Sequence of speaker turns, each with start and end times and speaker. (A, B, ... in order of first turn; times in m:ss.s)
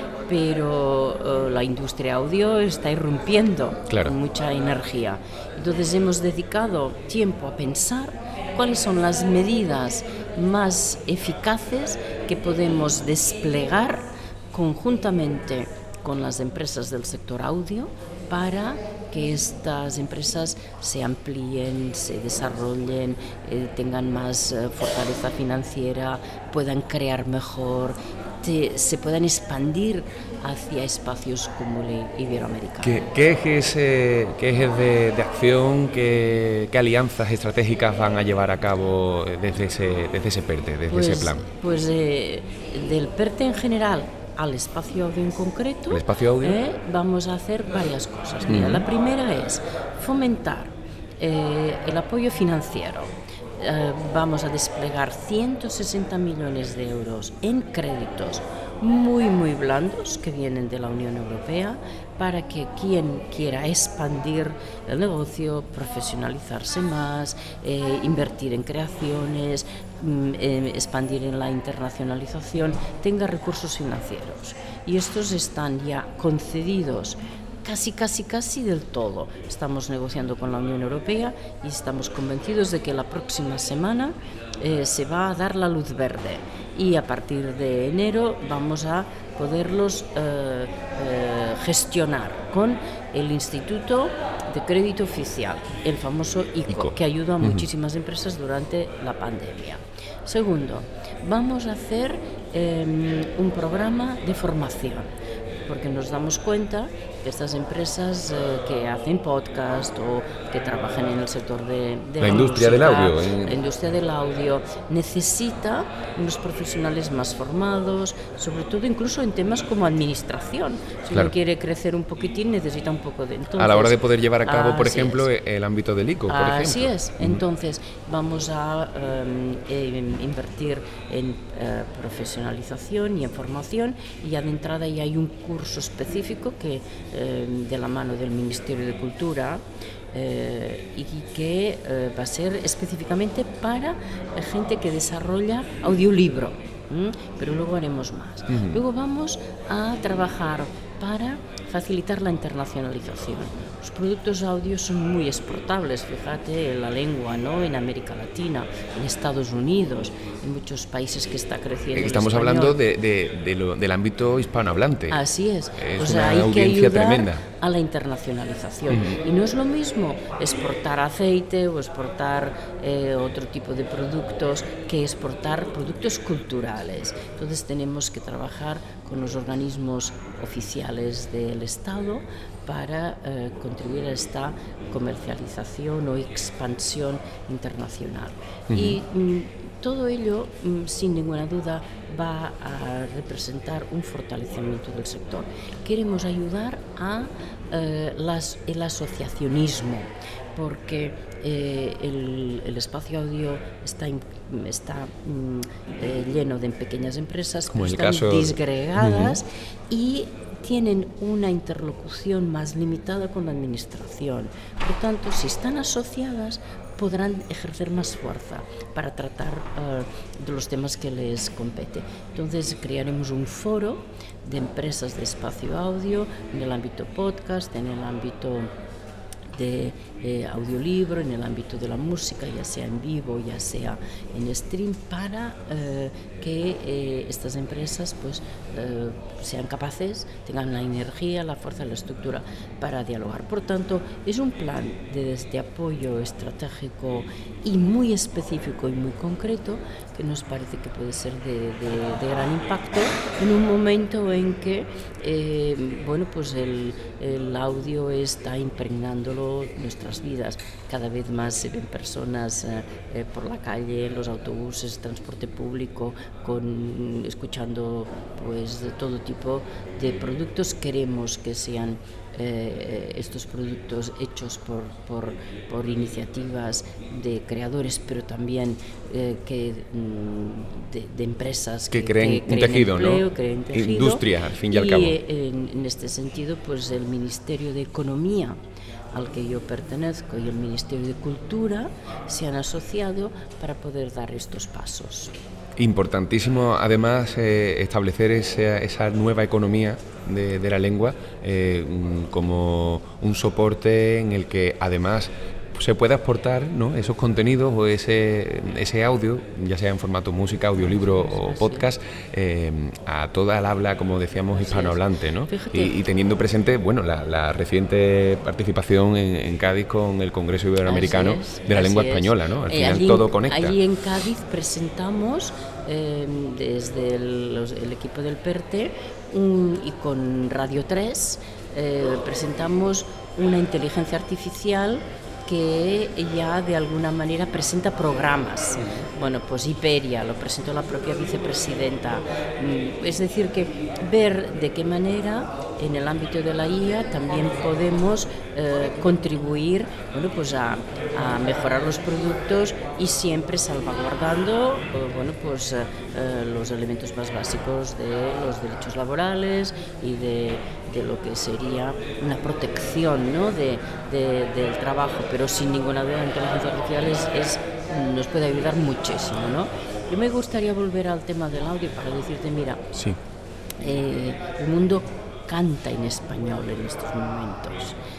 0:00.3-0:33.1 A
0:03.9-0:04.1 B
0:32.8-0:41.4 B
0:40.9-1:45.1 A
0:45.9-0:46.6 B
0:48.4-0:48.8 B
1:36.7-1:37.6 B
1:45.6-2:05.3 A
1:52.2-1:53.6 B
2:03.6-2:07.4 B
2:06.3-2:42.8 A
2:28.5-2:28.8 B
2:41.9-2:45.2 B
2:45.1-3:48.7 A
2:45.8-2:47.4 B
2:48.9-2:49.2 B
3:08.7-3:09.0 B
3:27.7-3:29.4 B
3:49.5-4:48.6 A
4:41.9-4:45.2 B
4:49.1-4:55.3 A
4:55.8-5:23.8 B
5:10.8-5:11.9 A
5:14.5-5:16.0 A
5:20.8-6:12.8 A
6:13.8-6:18.0 A